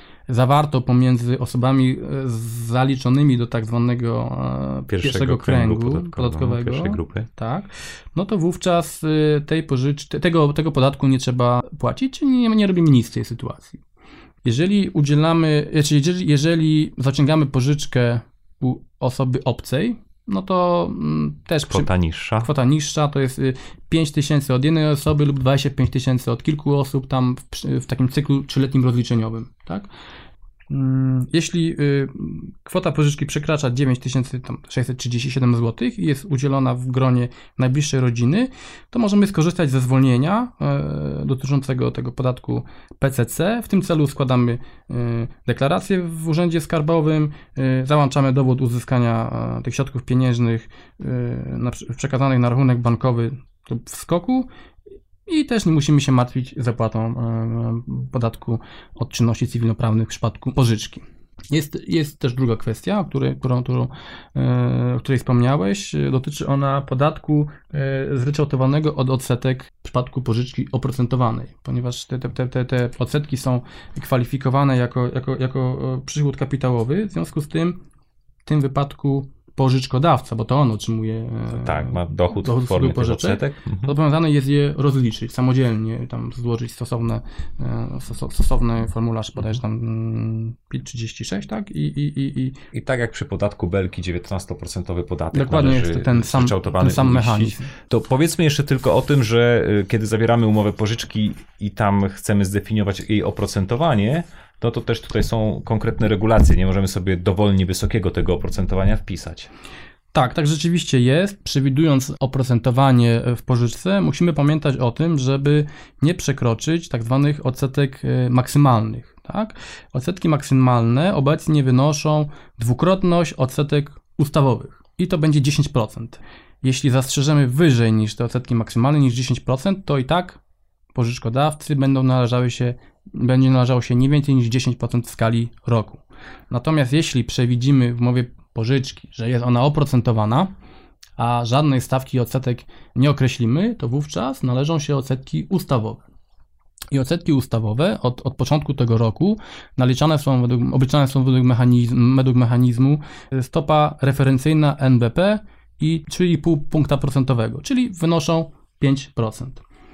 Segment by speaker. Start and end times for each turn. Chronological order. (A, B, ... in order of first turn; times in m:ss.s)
0:00.3-0:13.8 A
0:04.9-0:07.3 B
0:14.4-0:29.9 A
0:21.7-0:22.5 B
0:30.7-0:54.5 A
0:55.3-1:17.8 A
1:18.4-1:32.6 A
1:21.5-1:23.9 B
1:32.7-1:49.5 B
1:35.3-1:37.7 A
1:50.1-2:10.4 A
2:10.9-2:20.5 A
2:21.2-2:26.0 A
2:26.9-2:39.6 A